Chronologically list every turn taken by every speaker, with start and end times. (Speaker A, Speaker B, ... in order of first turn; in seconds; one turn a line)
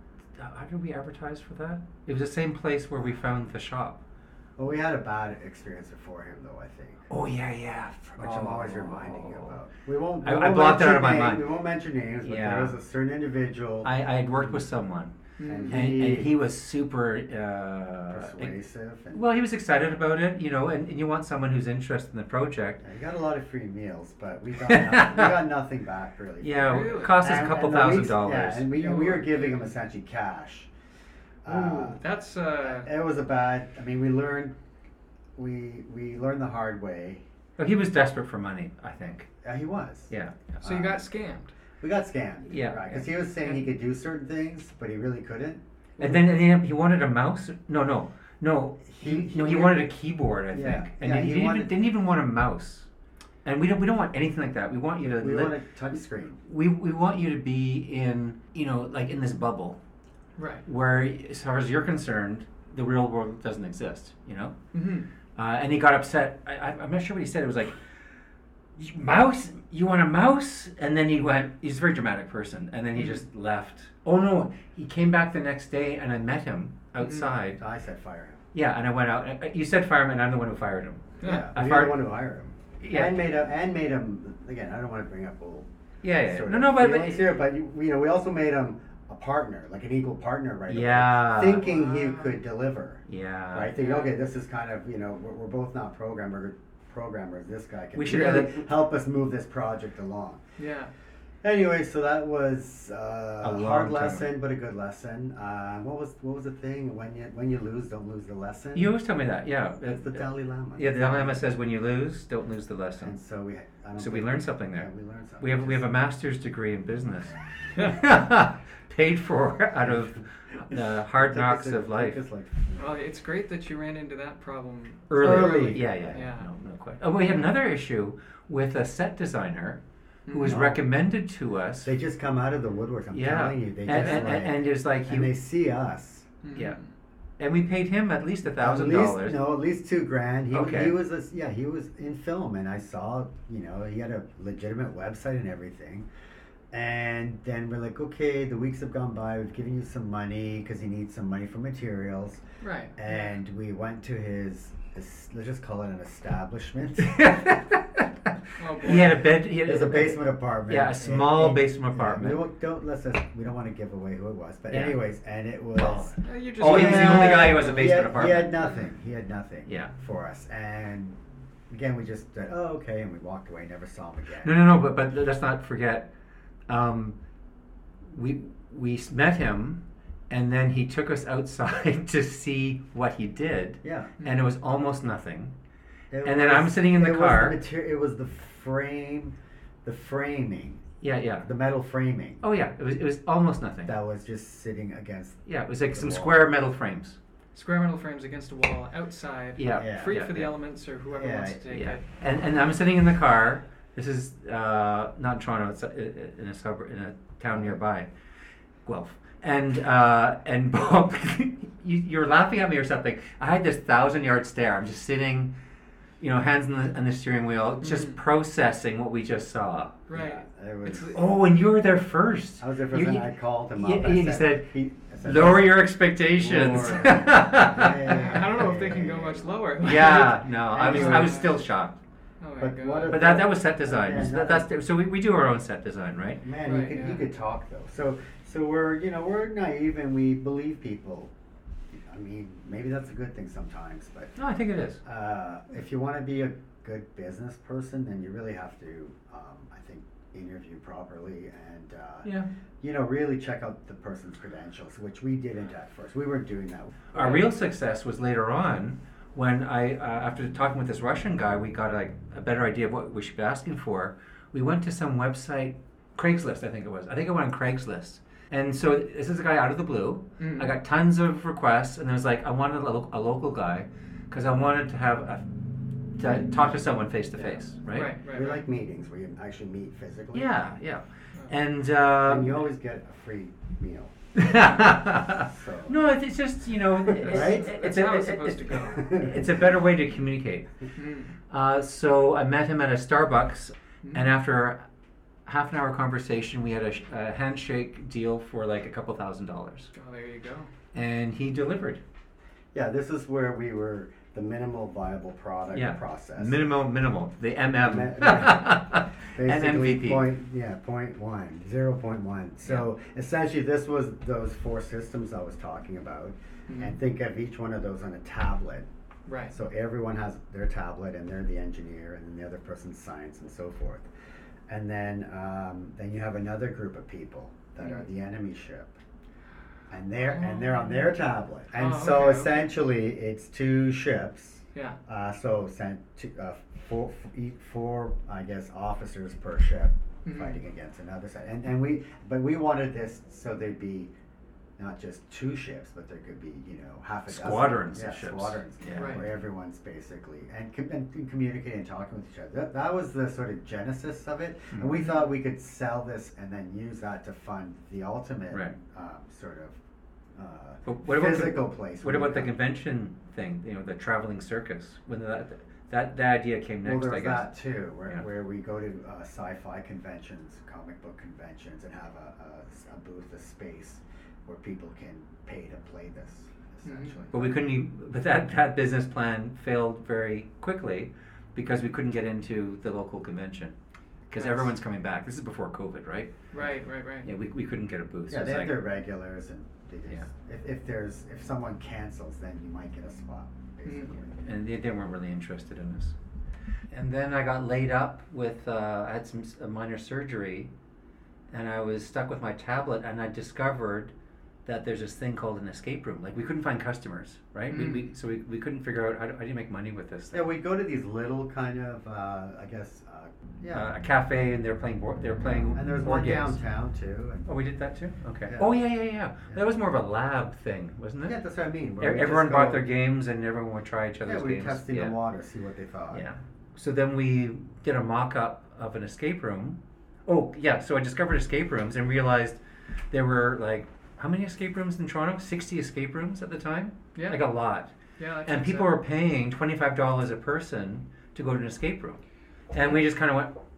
Speaker A: 0.4-4.0
Speaker B: 4.6-7.1
Speaker A: 7.1-9.6
Speaker B: 8.2-14.7
Speaker A: 10.2-11.5
Speaker A: 12.2-12.8
Speaker A: 13.8-15.2
Speaker C: 15.4-15.9
Speaker B: 15.4-16.4
Speaker A: 15.7-18.6
Speaker B: 18.1-19.3
Speaker A: 19.1-22.8
Speaker B: 22.8-30.7
Speaker A: 24.6-25.4
Speaker A: 26.4-28.7
Speaker C: 26.7-27.2
Speaker C: 28.7-29.7
Speaker B: 31.4-32.1
Speaker C: 31.5-32.9
Speaker B: 32.6-34.5
Speaker B: 35.4-37.2
Speaker A: 37.6-39.3
Speaker B: 39.4-41.1
Speaker A: 40.1-40.4
Speaker C: 40.6-41.5
Speaker B: 41.8-46.3
Speaker A: 42.5-43.1
Speaker A: 46.0-52.9
Speaker B: 48.9-49.9
Speaker B: 50.5-51.9
Speaker A: 53.4-55.6
Speaker B: 55.2-56.4
Speaker A: 56.5-59.8
Speaker C: 60.4-60.6
Speaker A: 60.7-64.6
Speaker C: 64.7-65.1
Speaker A: 65.3-67.8
Speaker A: 68.8-77.6
Speaker C: 73.0-73.2
Speaker C: 77.0-77.3
Speaker B: 77.5-78.5
Speaker A: 78.5-82.1
Speaker C: 81.2-81.5
Speaker B: 81.2-100.4
Speaker A: 82.8-83.3
Speaker A: 86.0-87.4
Speaker A: 90.7-91.7
Speaker C: 91.6-92.4
Speaker A: 93.1-93.7
Speaker C: 93.8-94.1
Speaker A: 97.9-98.7
Speaker C: 100.6-100.9
Speaker B: 101.4-109.0
Speaker A: 103.4-104.3
Speaker A: 108.7-113.2
Speaker B: 109.8-111.5
Speaker B: 113.0-115.9
Speaker A: 114.0-122.2
Speaker C: 117.8-118.0
Speaker B: 119.8-120.1
Speaker B: 120.7-123.1
Speaker C: 122.8-126.5
Speaker A: 125.1-131.9
Speaker B: 125.1-126.3
Speaker C: 130.3-130.6
Speaker B: 130.5-130.9
Speaker B: 131.8-136.3
Speaker A: 133.1-135.3
Speaker C: 133.9-134.3
Speaker C: 136.4-136.9
Speaker A: 137.4-139.4
Speaker B: 138.6-146.1
Speaker A: 140.5-141.0
Speaker B: 146.7-152.4
Speaker C: 152.6-153.1
Speaker B: 153.0-157.5
Speaker A: 157.0-158.1
Speaker C: 158.6-159.2
Speaker A: 158.8-162.5
Speaker B: 158.8-171.2
Speaker A: 164.7-165.0
Speaker A: 165.7-168.7
Speaker C: 166.2-168.6
Speaker A: 169.7-169.9
Speaker B: 171.7-174.8
Speaker A: 174.4-176.1
Speaker A: 176.7-177.2
Speaker A: 178.1-185.5
Speaker B: 183.8-184.1
Speaker C: 184.2-184.5
Speaker B: 186.1-190.8
Speaker A: 186.2-187.6
Speaker A: 191.0-191.5
Speaker B: 191.4-192.4
Speaker A: 192.4-193.9
Speaker B: 193.9-196.5
Speaker A: 195.5-197.2
Speaker C: 197.5-202.0
Speaker A: 199.6-200.5
Speaker B: 199.8-200.2
Speaker B: 201.1-201.6
Speaker A: 201.6-208.1
Speaker A: 208.9-215.6
Speaker A: 216.2-220.0
Speaker C: 217.8-218.2
Speaker C: 220.1-220.4
Speaker B: 220.1-221.4
Speaker A: 220.8-228.3
Speaker B: 222.6-231.5
Speaker C: 228.0-231.6
Speaker A: 229.8-232.0
Speaker C: 232.4-233.3
Speaker B: 232.6-234.7
Speaker A: 233.1-236.4
Speaker B: 236.4-241.3
Speaker C: 236.7-237.3
Speaker B: 241.9-244.4
Speaker A: 244.4-245.0
Speaker B: 245.0-257.1
Speaker A: 257.1-275.5
Speaker C: 257.2-257.5
Speaker C: 270.4-270.7
Speaker A: 276.1-278.1
Speaker B: 276.2-280.6
Speaker C: 277.9-278.6
Speaker A: 280.3-282.6
Speaker B: 282.2-284.1
Speaker A: 284.4-290.7
Speaker C: 284.5-284.9
Speaker B: 285.1-286.0
Speaker B: 287.0-287.7
Speaker C: 287.2-289.1
Speaker B: 288.9-289.5
Speaker C: 290.9-291.3
Speaker A: 291.5-294.8
Speaker C: 294.0-294.3
Speaker A: 295.5-299.9
Speaker C: 299.9-300.7
Speaker A: 300.9-302.0
Speaker B: 302.7-306.6
Speaker A: 305.7-310.3
Speaker B: 307.7-318.9
Speaker C: 316.7-317.0
Speaker C: 319.3-319.5
Speaker B: 319.5-324.1
Speaker B: 324.7-329.0
Speaker C: 327.8-328.1
Speaker B: 329.9-344.1
Speaker C: 330.2-331.1
Speaker C: 331.7-332.7
Speaker C: 340.2-340.6
Speaker B: 344.8-359.8
Speaker A: 347.3-349.3
Speaker C: 348.9-349.3
Speaker A: 358.5-358.8
Speaker B: 360.4-362.5
Speaker A: 360.9-368.3
Speaker B: 366.8-377.7
Speaker C: 376.8-377.2
Speaker A: 377.3-383.8
Speaker A: 384.3-386.4
Speaker C: 384.4-384.7
Speaker C: 386.5-387.3
Speaker A: 387.2-388.8
Speaker B: 388.3-394.4
Speaker C: 393.9-394.1
Speaker A: 394.4-396.2
Speaker A: 396.9-400.7
Speaker A: 401.5-404.1
Speaker A: 404.6-410.5
Speaker C: 407.7-408.0
Speaker B: 410.3-413.9
Speaker A: 413.7-416.6
Speaker B: 415.5-417.5
Speaker A: 417.5-421.4
Speaker B: 418.5-418.9
Speaker B: 421.2-422.9
Speaker A: 422.0-425.2
Speaker B: 424.2-426.3
Speaker A: 426.1-437.9
Speaker C: 437.1-437.5
Speaker C: 438.2-439.0
Speaker A: 438.5-442.2
Speaker A: 442.7-443.6
Speaker C: 442.8-443.0